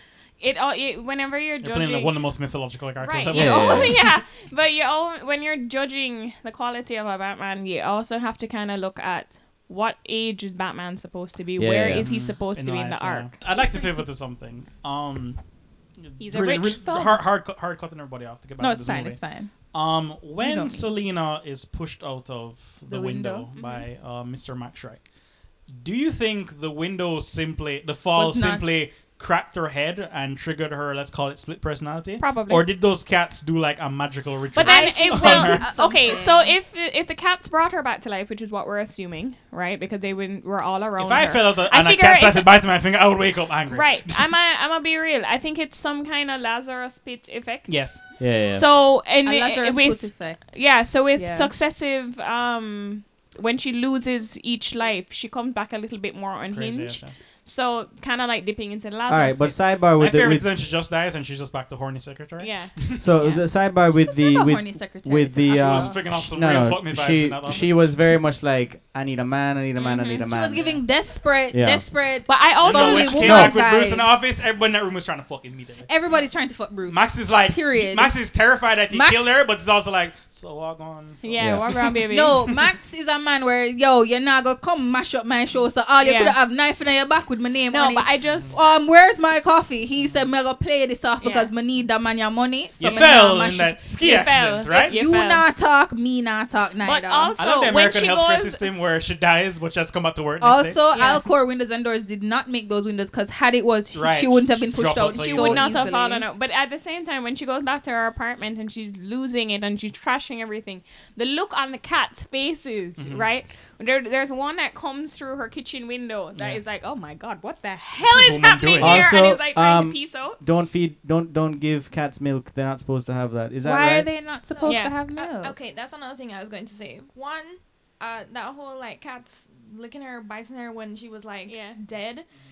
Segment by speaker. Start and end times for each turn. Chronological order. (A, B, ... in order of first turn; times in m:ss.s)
0:00.4-0:02.2 A
0:01.6-0:04.1 B
0:03.0-0:13.4 A
0:03.3-0:04.0 C
0:11.6-0:12.1 C
0:11.9-0:15.4 B
0:16.0-0:25.0 B
0:16.2-0:17.3 A
0:18.6-0:19.5 D
0:20.4-0:20.9 D
0:22.9-0:23.5 D
0:23.6-0:23.9 A
0:25.7-0:35.6 B
0:28.1-0:28.6 D
0:32.2-0:32.7 A
0:34.6-0:36.6 D
0:34.6-0:42.5 A
0:41.0-0:44.2 B
0:43.7-0:59.6 A
0:47.7-0:48.0 B
0:48.2-0:48.6 C
0:49.2-0:51.5 D
0:56.5-0:57.2 B
0:59.1-1:00.5 C
1:00.0-1:03.1 B
1:02.4-1:03.4 A
1:03.0-1:10.7 C
1:03.9-1:06.0 D
1:05.5-1:08.0 B
1:09.8-1:10.3 A
1:10.2-1:14.3 D
1:10.6-1:10.8 B
1:11.5-1:11.9 C
1:12.3-1:13.4 A
1:12.6-1:15.9 B
1:13.2-1:13.6 C
1:15.9-1:18.2 D
1:16.9-1:22.6 B
1:18.9-1:19.4 D
1:21.2-1:22.4 A
1:21.4-1:21.7 C
1:22.0-1:37.4 D
1:26.0-1:26.4 A
1:27.7-1:28.6 A
1:28.3-1:28.6 B
1:30.0-1:30.2 B
1:31.2-1:31.5 A
1:32.8-1:35.2 B
1:34.0-1:35.5 A
1:36.8-1:38.6 A
1:37.4-1:40.8 B
1:40.4-1:46.3 D
1:40.9-1:41.3 A
1:43.9-1:45.7 B
1:45.1-2:00.4 A
1:53.0-1:53.3 B
1:56.4-1:56.6 B
1:58.0-1:59.1 B
1:58.8-2:04.1 C
2:03.6-2:05.6 D
2:04.5-2:12.3 E
2:04.6-2:05.0 A
2:11.5-2:11.8 A